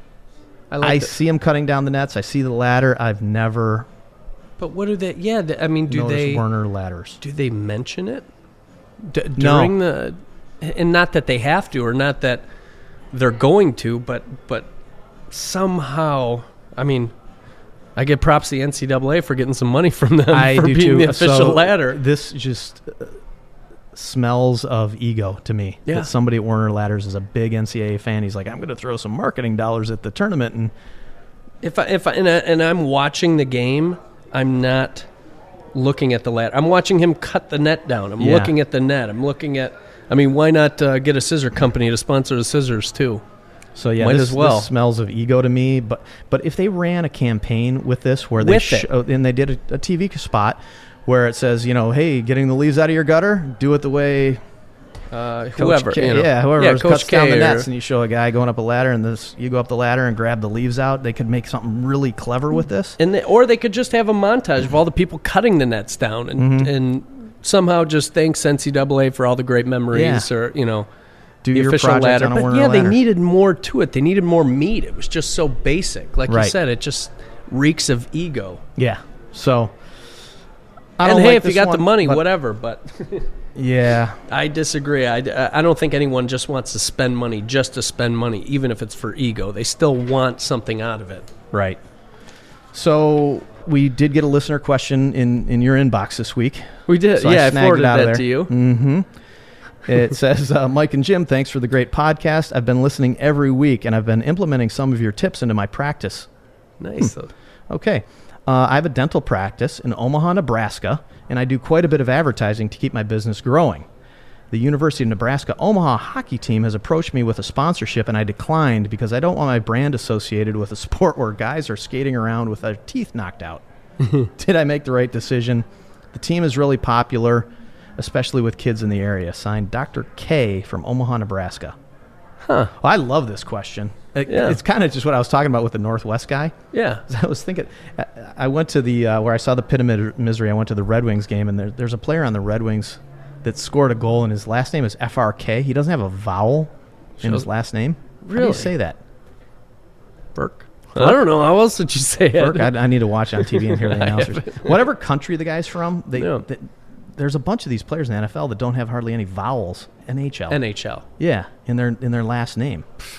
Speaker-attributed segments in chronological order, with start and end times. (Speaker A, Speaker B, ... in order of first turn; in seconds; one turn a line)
Speaker A: 0.7-1.1
Speaker B: 0.8-3.9
Speaker A: 4.6-6.5
Speaker B: 5.9-7.2
Speaker A: 7.2-8.3
Speaker A: 9.0-12.4
Speaker B: 9.4-9.8
Speaker A: 13.1-14.7
Speaker A: 15.3-17.1
Speaker A: 18.0-22.0
Speaker B: 20.3-23.1
Speaker B: 23.9-30.7
Speaker A: 31.6-35.1
Speaker A: 35.7-43.2
Speaker B: 38.2-38.5
Speaker B: 43.8-54.4
Speaker A: 44.0-44.7
Speaker A: 48.4-48.9
Speaker A: 55.1-57.7
Speaker B: 55.5-63.0
Speaker A: 63.0-70.9
Speaker B: 66.4-66.7
Speaker B: 69.9-70.3
Speaker B: 71.4-73.0
Speaker A: 71.5-78.6
Speaker B: 76.3-76.5
Speaker B: 78.8-79.7
Speaker B: 81.0-82.2
Speaker A: 81.0-83.3
Speaker B: 83.5-84.2
Speaker A: 84.3-91.3
Speaker B: 91.5-91.8
Speaker B: 92.7-99.1
Speaker A: 96.9-98.5
Speaker B: 99.9-106.3
Speaker A: 106.8-107.3
Speaker B: 107.7-113.9
Speaker B: 114.5-123.6
Speaker B: 124.4-127.5
Speaker B: 128.0-131.8
Speaker A: 132.5-132.7
Speaker B: 132.8-136.5
Speaker A: 134.3-134.6
Speaker A: 136.7-137.0
Speaker B: 137.1-149.0
Speaker A: 147.2-147.5
Speaker A: 148.2-148.7
Speaker A: 150.3-152.7
Speaker B: 151.0-151.2
Speaker B: 152.3-160.6
Speaker A: 153.3-154.7
Speaker A: 156.2-156.5
Speaker A: 160.5-161.0
Speaker B: 161.2-162.8